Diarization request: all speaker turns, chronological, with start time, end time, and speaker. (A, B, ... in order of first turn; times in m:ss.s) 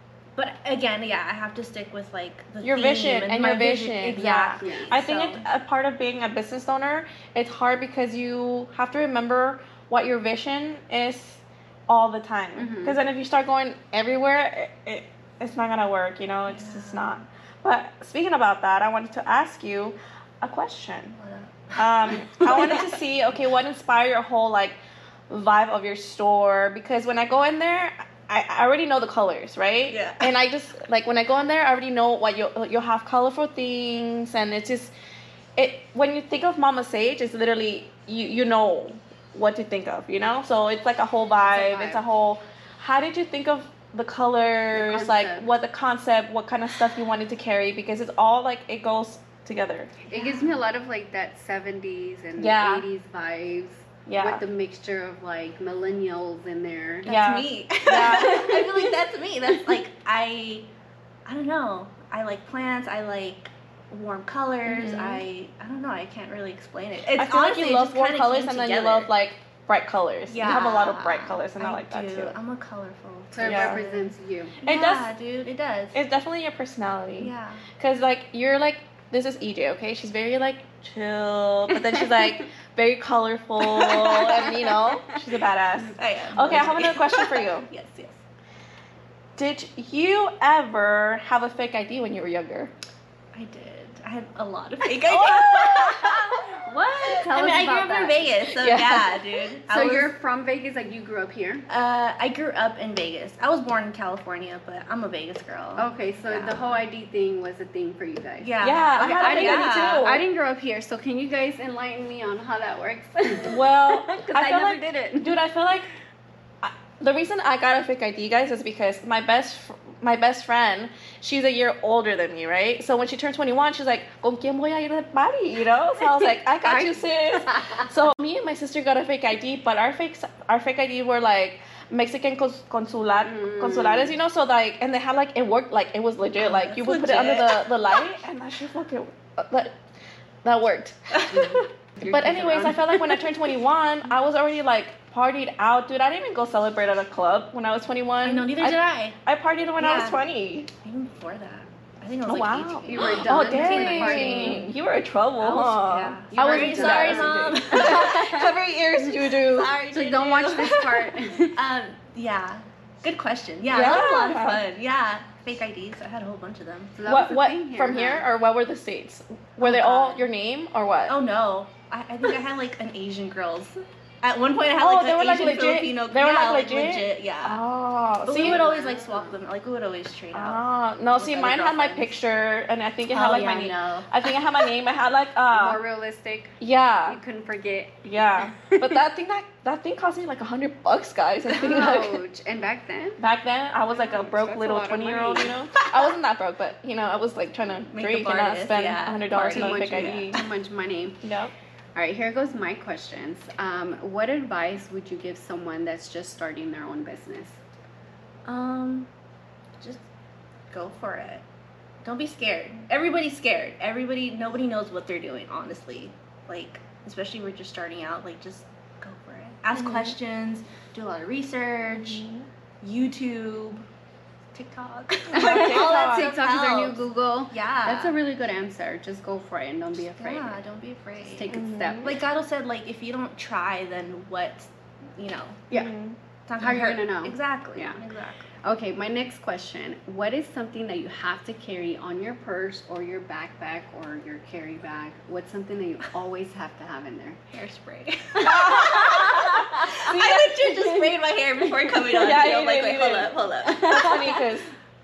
0:00.4-0:05.4 A
0:02.6-0:21.2 B
0:04.6-0:05.0 C
0:12.6-0:13.0 C
0:16.5-0:17.2 A
0:21.2-0:23.0 A
0:21.8-0:24.8 B
0:25.3-0:34.9 B
0:29.9-0:30.3 A
0:35.6-0:49.9 B
0:41.4-0:42.0 C
0:44.7-0:45.5 C
0:50.1-0:57.1 C
0:50.1-0:50.6 A
0:52.4-0:52.9 B
0:54.1-0:54.4 B
0:57.1-0:58.9 B
0:57.1-1:00.7 A
1:01.3-1:09.1 A
1:04.7-1:05.2 B
1:07.1-1:12.4 B
1:10.3-1:14.1 A
1:13.3-1:14.6 C
1:13.4-1:13.8 B
1:14.6-1:15.1 B
1:14.6-1:16.0 A
1:15.9-1:27.7 B
1:17.2-1:17.7 A
1:24.1-1:24.7 C
1:26.0-1:28.2 A
1:29.4-1:32.7 B
1:33.3-1:36.4 A
1:34.9-1:36.4 B
1:36.5-1:38.5 C
1:37.1-1:40.1 A
1:38.6-1:39.3 B
1:39.7-1:41.6 C
1:41.7-1:46.8 A
1:45.8-1:55.4 C
1:48.4-1:50.1 A
1:48.6-1:50.2 B
1:53.4-1:55.9 B
1:56.6-2:19.8 B
2:06.6-2:07.9 C
2:13.2-2:14.2 C
2:16.4-2:18.0 A
2:20.4-2:30.7 B
2:21.3-2:23.0 C
2:28.2-2:29.2 A
2:29.8-2:30.2 A
2:30.8-2:34.7 A
2:32.3-2:39.8 B
2:32.9-2:34.6 C
2:35.4-2:38.4 A
2:36.3-2:38.5 C
2:39.4-2:47.0 A
2:39.9-2:41.6 C
2:43.7-2:44.6 B
2:47.0-2:48.3 C
2:47.1-2:51.2 B
2:49.6-2:50.2 A
2:51.1-2:57.6 A
2:54.8-2:58.6 B
2:58.2-3:00.6 A
2:58.4-2:59.4 C
3:00.3-3:05.8 B
3:01.2-3:02.2 A
3:03.1-3:04.1 A
3:05.5-3:09.0 C
3:06.6-3:07.2 B
3:08.0-3:12.2 B
3:11.5-3:13.2 C
3:13.2-3:20.4 B
3:13.9-3:15.6 C
3:17.9-3:20.5 A
3:19.4-3:21.2 C
3:21.2-3:21.5 B
3:22.0-3:27.6 C
3:28.5-3:29.1 A
3:30.7-3:31.4 A
3:32.0-3:42.2 A
3:39.7-3:40.2 B
3:41.9-3:42.5 B
3:42.8-3:43.9 A
3:44.5-3:48.2 A
3:45.3-3:46.3 B
3:45.3-3:50.6 C
3:50.2-3:55.7 A
3:51.3-3:52.2 C
3:51.5-3:52.2 B
3:55.7-3:56.2 B
3:56.5-3:58.5 A
3:56.6-3:58.0 C
3:58.6-4:07.4 C
4:07.5-4:14.5 A
4:08.4-4:10.7 B
4:08.6-4:08.9 C
4:09.6-4:10.3 C
4:12.1-4:14.7 B